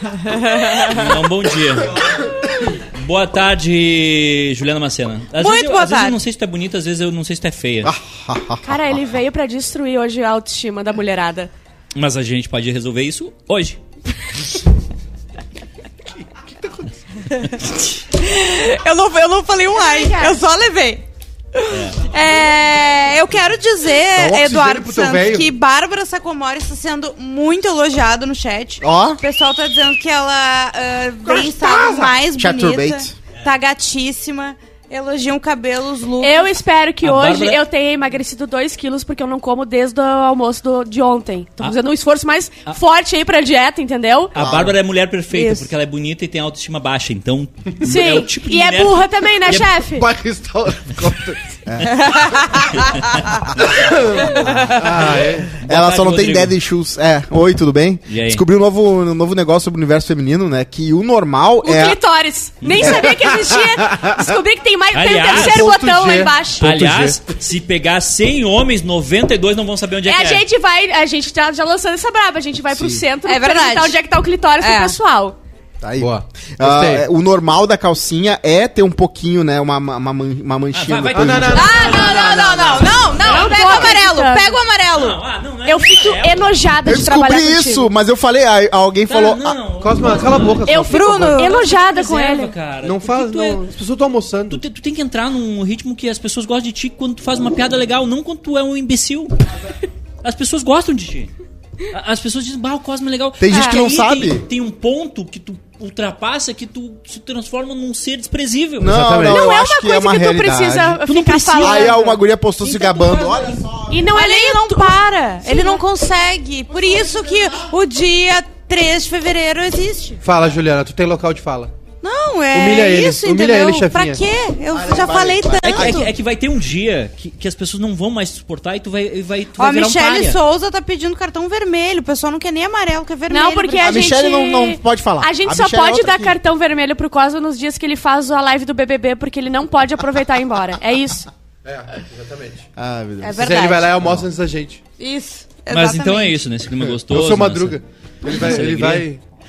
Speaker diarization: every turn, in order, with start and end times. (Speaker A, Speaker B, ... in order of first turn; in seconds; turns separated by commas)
Speaker A: 0.6-0.8, Speaker B: 0.7-7.9, Speaker A: 5.4-6.1, Speaker C: 7.8-8.7, Speaker D: 8.6-11.5, Speaker B: 11.9-13.8, Speaker E: 16.4-16.9, Speaker A: 18.1-36.5, Speaker D: 19.8-20.4, Speaker B: 21.7-22.0, Speaker E: 24.1-25.5, Speaker C: 28.8-29.2, Speaker E: 31.2-32.1, Speaker C: 32.3-33.1, Speaker D: 36.2-44.3, Speaker B: 37.0-37.6, Speaker B: 44.3-49.7, Speaker C: 44.4-44.8, Speaker A: 45.3-45.7, Speaker D: 47.8-50.1, Speaker E: 49.9-51.4, Speaker C: 51.7-52.2, Speaker A: 52.1-52.6, Speaker E: 53.7-55.6, Speaker B: 55.6-56.5, Speaker C: 55.6-62.0, Speaker B: 58.1-58.4, Speaker D: 61.6-66.6, Speaker E: 63.0-64.2, Speaker B: 64.9-65.6, Speaker E: 65.3-67.2, Speaker B: 66.6-70.4, Speaker D: 70.0-75.3, Speaker C: 72.7-73.0, Speaker A: 73.2-74.0, Speaker A: 74.6-75.0, Speaker C: 75.8-81.7, Speaker E: 76.0-77.0, Speaker B: 80.7-82.1, Speaker E: 81.1-83.1, Speaker A: 81.5-85.2, Speaker D: 83.2-84.6, Speaker B: 84.9-86.5, Speaker D: 85.6-87.9, Speaker C: 86.8-89.6, Speaker B: 89.1-90.6, Speaker E: 89.8-91.4, Speaker D: 90.6-92.5, Speaker A: 90.9-91.6, Speaker B: 91.5-93.6, Speaker E: 92.8-94.6, Speaker B: 94.5-99.3, Speaker B: 100.2-101.3, Speaker B: 101.9-108.9, Speaker C: 103.4-104.4, Speaker D: 103.5-103.8, Speaker C: 108.8-111.0, Speaker E: 108.8-109.5, Speaker D: 109.2-112.2, Speaker B: 111.1-112.0, Speaker C: 111.6-114.2, Speaker B: 112.6-113.4, Speaker D: 113.9-115.8, Speaker A: 114.1-120.2, Speaker C: 116.7-117.7, Speaker E: 120.2-121.7, Speaker A: 122.0-126.1, Speaker E: 122.5-124.2, Speaker C: 124.7-126.1, Speaker B: 125.6-130.4, Speaker A: 129.6-134.1, Speaker D: 133.3-141.3, Speaker C: 133.8-136.4, Speaker E: 141.6-142.7, Speaker C: 142.8-144.3, Speaker A: 143.2-143.8, Speaker E: 143.4-144.8, Speaker A: 145.0-146.4, Speaker B: 145.7-149.1, Speaker E: 147.1-149.2